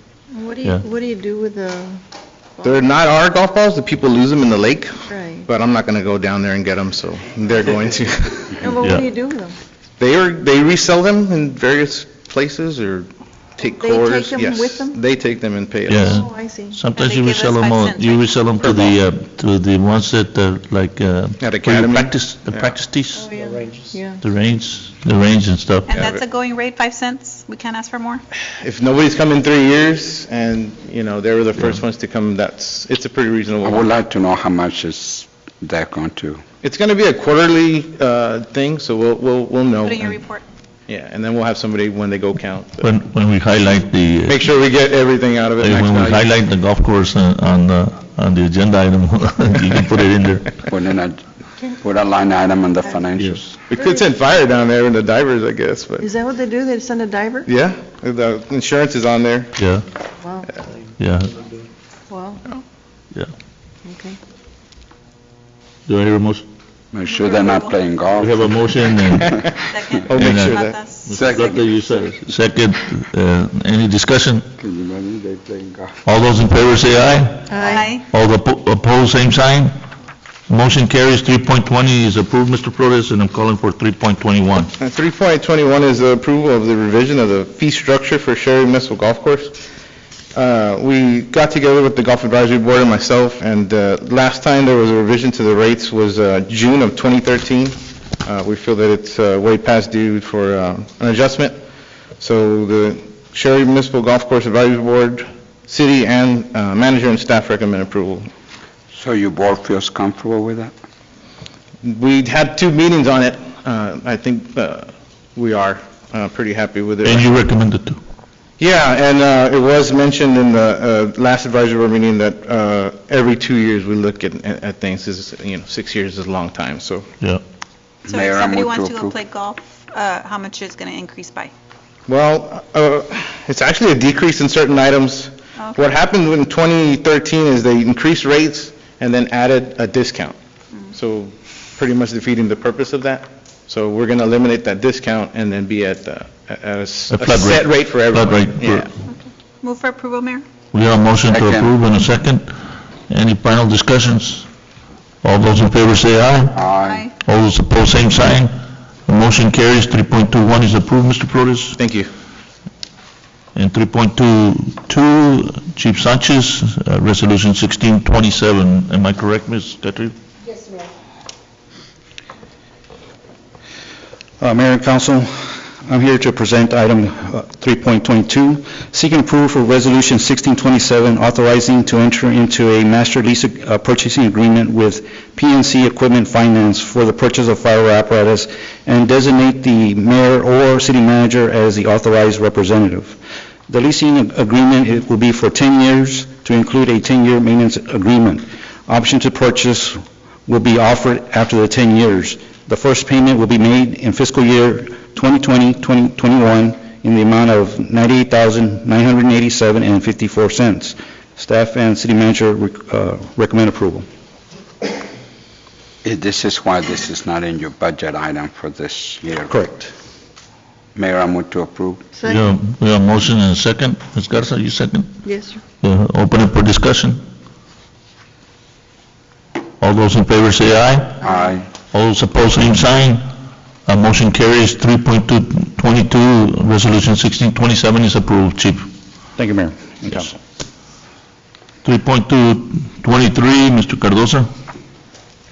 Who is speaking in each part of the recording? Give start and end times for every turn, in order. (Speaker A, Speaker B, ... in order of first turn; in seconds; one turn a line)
Speaker A: 0.3-2.0
Speaker B: 2.6-8.6
Speaker A: 5.1-5.4
Speaker A: 8.6-9.5
Speaker C: 8.8-9.1
Speaker B: 10.0-16.2
Speaker A: 13.6-15.0
Speaker C: 15.9-23.3
Speaker A: 15.9-16.8
Speaker D: 16.9-18.9
Speaker B: 21.4-22.7
Speaker A: 23.2-24.2
Speaker C: 24.2-25.9
Speaker D: 25.9-28.2
Speaker B: 25.9-26.2
Speaker B: 28.6-33.9
Speaker E: 33.6-36.4
Speaker B: 36.6-40.2
Speaker D: 39.8-40.4
Speaker B: 40.9-42.9
Speaker C: 42.8-44.4
Speaker B: 44.3-46.4
Speaker C: 45.6-50.7
Speaker E: 50.7-53.6
Speaker B: 53.7-56.1
Speaker A: 53.8-54.0
Speaker A: 56.0-57.5
Speaker B: 57.5-59.5
Speaker C: 59.6-59.8
Speaker A: 60.2-60.5
Speaker C: 61.0-61.3
Speaker A: 62.1-62.4
Speaker A: 63.8-64.2
Speaker C: 65.9-66.4
Speaker E: 66.9-68.8
Speaker D: 67.0-67.9
Speaker C: 68.2-69.3
Speaker D: 69.6-71.8
Speaker B: 70.1-70.8
Speaker C: 70.1-74.5
Speaker E: 71.1-71.7
Speaker E: 74.6-75.9
Speaker C: 76.0-77.6
Speaker A: 77.5-77.9
Speaker D: 77.6-78.0
Speaker C: 78.1-79.7
Speaker C: 80.5-84.7
Speaker B: 84.8-89.6
Speaker B: 90.3-101.5
Speaker B: 102.2-108.3
Speaker E: 108.9-110.7
Speaker B: 111.8-117.3
Speaker C: 117.0-118.0
Speaker B: 118.6-127.0
Speaker E: 128.1-129.2
Speaker D: 128.1-131.5
Speaker B: 132.1-140.3
Speaker D: 135.6-135.9
Speaker B: 140.9-148.9
Speaker C: 147.1-148.9
Speaker D: 149.6-150.4
Speaker C: 150.7-152.5
Speaker E: 151.3-151.7
Speaker C: 153.1-154.5
Speaker C: 155.2-156.6
Speaker E: 156.5-157.1
Speaker D: 156.8-157.1
Speaker C: 157.2-158.5
Speaker C: 159.1-161.8
Speaker B: 161.8-162.1
Speaker C: 163.5-170.1
Speaker F: 174.4-193.2
Speaker F: 193.7-214.1
Speaker E: 216.0-219.5
Speaker F: 219.5-219.9
Speaker E: 220.9-222.0
Speaker A: 222.2-222.4
Speaker C: 222.2-225.2
Speaker A: 225.2-225.6
Speaker C: 225.8-227.2
Speaker C: 229.8-231.2
Speaker E: 231.2-231.7
Speaker C: 231.9-233.2
Speaker C: 233.8-238.9
Speaker F: 239.4-240.3
Speaker C: 241.8-244.5